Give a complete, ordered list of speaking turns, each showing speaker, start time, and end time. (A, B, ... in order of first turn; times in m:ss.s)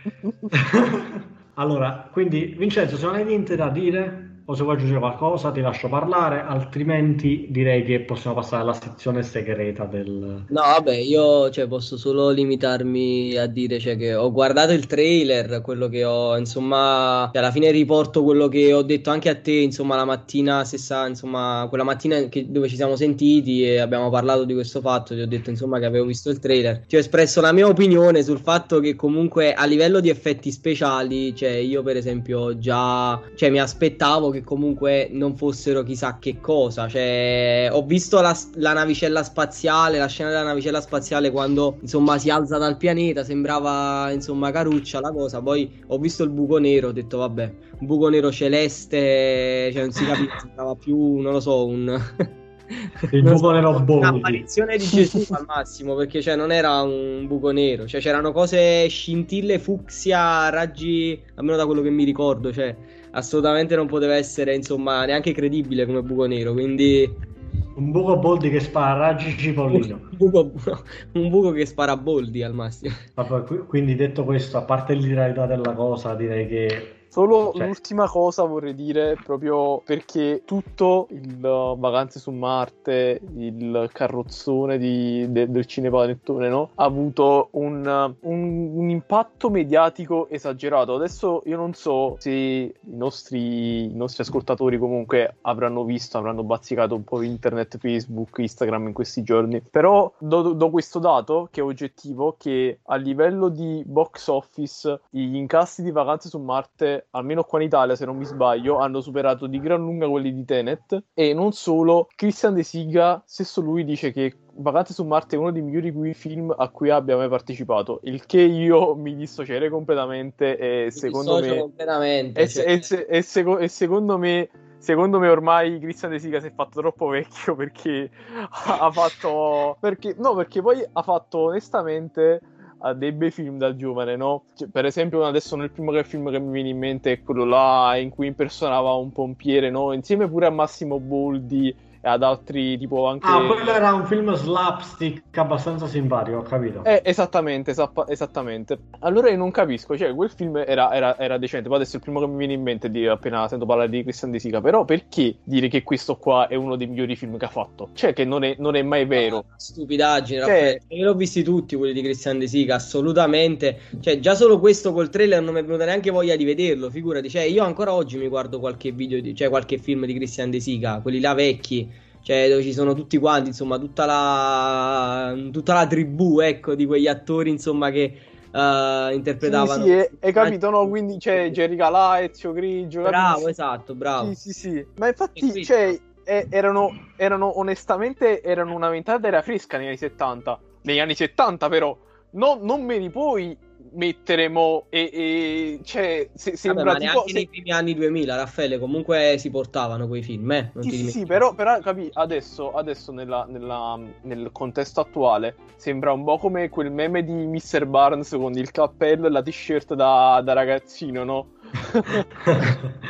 0:00.5-0:10.5 A
0:10.5-1:07.2 B
0:53.1-0:54.5 A
0:54.8-0:55.3 C
1:07.8-1:10.1 A
1:09.7-1:13.0 B
1:13.2-1:17.8 A
1:17.1-2:01.7 C
2:01.0-2:02.9 B
2:02.4-2:23.8 C
2:23.2-2:26.9 A
2:26.8-2:39.4 C
2:39.2-3:01.6 B
2:40.4-2:40.8 C
2:59.4-3:03.5 C
3:03.0-3:04.4 B
3:04.2-3:17.5 C
3:05.4-3:05.9 B
3:16.7-3:21.4 B
3:20.8-3:32.7 C
3:32.5-3:32.9 A